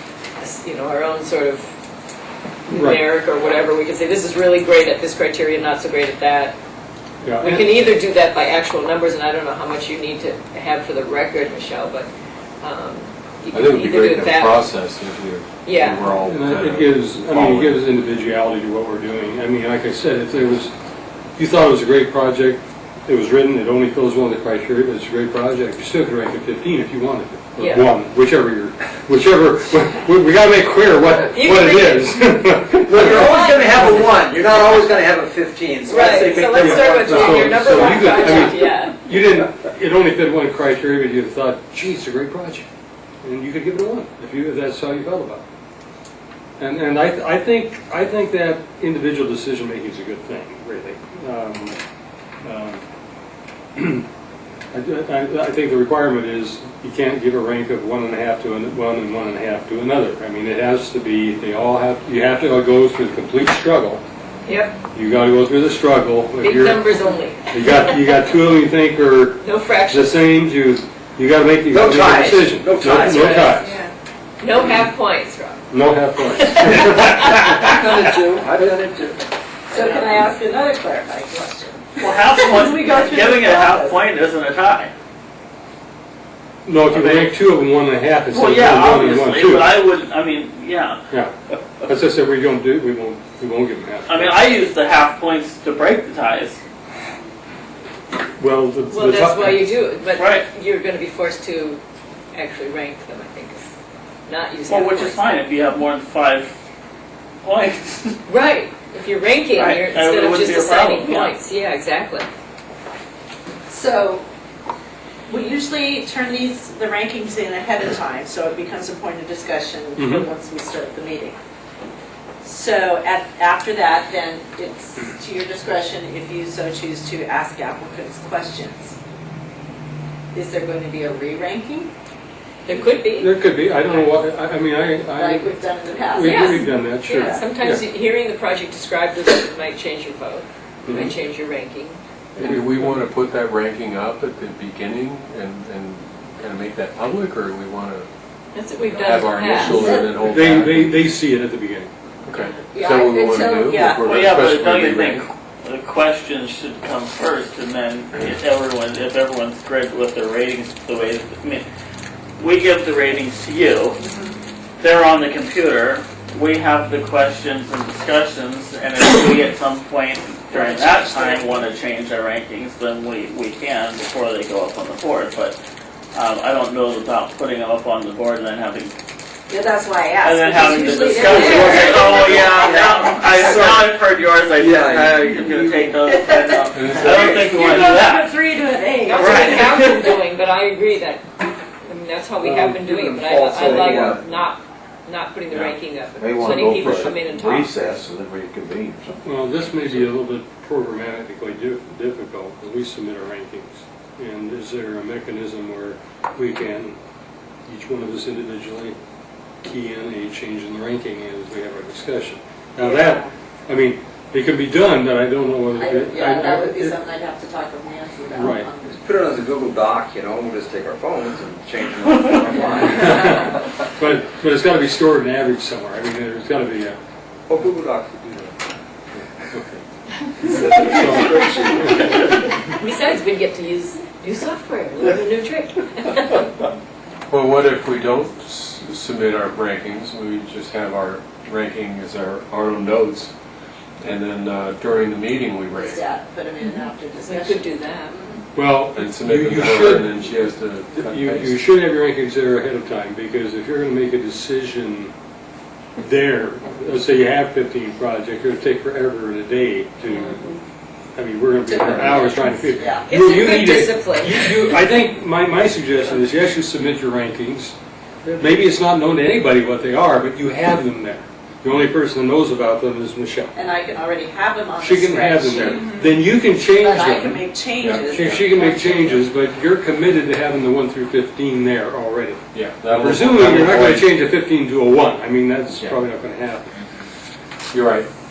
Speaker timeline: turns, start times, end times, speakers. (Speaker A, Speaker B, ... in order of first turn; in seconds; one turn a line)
Speaker A: 0.4-1.7
Speaker A: 2.7-6.5
Speaker B: 2.7-3.0
Speaker B: 7.2-7.7
Speaker A: 7.4-12.1
Speaker A: 12.6-14.7
Speaker C: 13.5-17.8
Speaker A: 15.7-16.0
Speaker B: 16.2-20.7
Speaker B: 21.4-33.9
Speaker A: 27.6-27.9
Speaker A: 31.1-32.2
Speaker D: 32.9-38.5
Speaker A: 32.9-34.2
Speaker A: 35.9-39.0
Speaker B: 36.5-42.6
Speaker B: 43.2-45.4
Speaker B: 46.6-51.8
Speaker B: 52.4-52.8
Speaker B: 53.8-54.1
Speaker B: 54.7-64.0
Speaker A: 64.5-64.8
Speaker B: 64.9-73.7
Speaker A: 66.4-67.5
Speaker A: 69.4-70.2
Speaker D: 71.7-73.6
Speaker E: 73.6-73.9
Speaker A: 74.4-75.6
Speaker B: 75.7-78.8
Speaker D: 76.8-79.0
Speaker E: 79.7-84.0
Speaker F: 82.0-84.9
Speaker B: 86.7-89.7
Speaker F: 86.9-87.4
Speaker F: 88.3-91.0
Speaker B: 91.1-94.4
Speaker F: 94.1-96.6
Speaker B: 98.4-99.7
Speaker A: 98.9-101.8
Speaker F: 100.2-100.5
Speaker A: 102.3-103.7
Speaker A: 104.3-105.4
Speaker F: 104.7-106.5
Speaker F: 107.4-108.2
Speaker A: 108.3-112.3
Speaker F: 109.5-111.3
Speaker E: 113.7-114.2
Speaker E: 115.3-121.4
Speaker B: 120.0-120.3
Speaker E: 122.4-129.0
Speaker E: 130.3-131.9
Speaker A: 132.7-133.3
Speaker B: 133.2-137.8
Speaker E: 135.1-137.4
Speaker A: 136.2-142.0
Speaker B: 140.8-141.2
Speaker C: 142.4-148.1
Speaker B: 142.4-143.0
Speaker A: 148.5-150.0
Speaker C: 149.0-151.0
Speaker B: 149.6-151.9
Speaker E: 149.7-150.1
Speaker C: 152.3-155.2
Speaker E: 152.7-154.0
Speaker F: 154.0-161.7
Speaker F: 162.4-164.0
Speaker E: 164.0-164.3
Speaker F: 164.8-175.6
Speaker E: 170.5-171.7
Speaker F: 176.1-178.9
Speaker E: 179.5-183.6
Speaker F: 180.2-188.3
Speaker A: 181.1-182.0
Speaker D: 181.3-183.9
Speaker D: 184.6-185.9
Speaker E: 186.0-190.0
Speaker C: 186.7-187.4
Speaker A: 189.0-191.2
Speaker F: 189.2-190.1
Speaker A: 191.8-197.8
Speaker B: 192.4-192.9
Speaker D: 192.8-194.2
Speaker G: 196.3-199.3
Speaker B: 199.2-207.0
Speaker B: 207.7-209.0
Speaker B: 209.6-217.0
Speaker E: 212.8-213.3
Speaker E: 215.8-219.0
Speaker B: 218.3-218.7
Speaker D: 218.9-223.6
Speaker E: 222.6-223.1
Speaker B: 222.8-227.0
Speaker D: 227.5-228.5
Speaker B: 229.5-229.8
Speaker B: 230.4-232.1
Speaker D: 230.4-232.4
Speaker A: 232.8-236.5
Speaker C: 237.3-243.3
Speaker C: 244.0-246.0
Speaker E: 245.7-248.4
Speaker A: 246.6-248.2
Speaker B: 248.6-250.3
Speaker C: 248.9-251.7
Speaker B: 250.9-255.1
Speaker B: 256.0-260.6
Speaker A: 260.1-260.6
Speaker B: 261.2-273.5
Speaker E: 261.7-262.4
Speaker D: 262.8-263.1
Speaker A: 263.1-264.6
Speaker E: 273.5-279.2
Speaker B: 274.8-277.5
Speaker C: 277.8-278.3
Speaker B: 278.1-286.7
Speaker C: 282.5-284.1
Speaker C: 287.7-288.1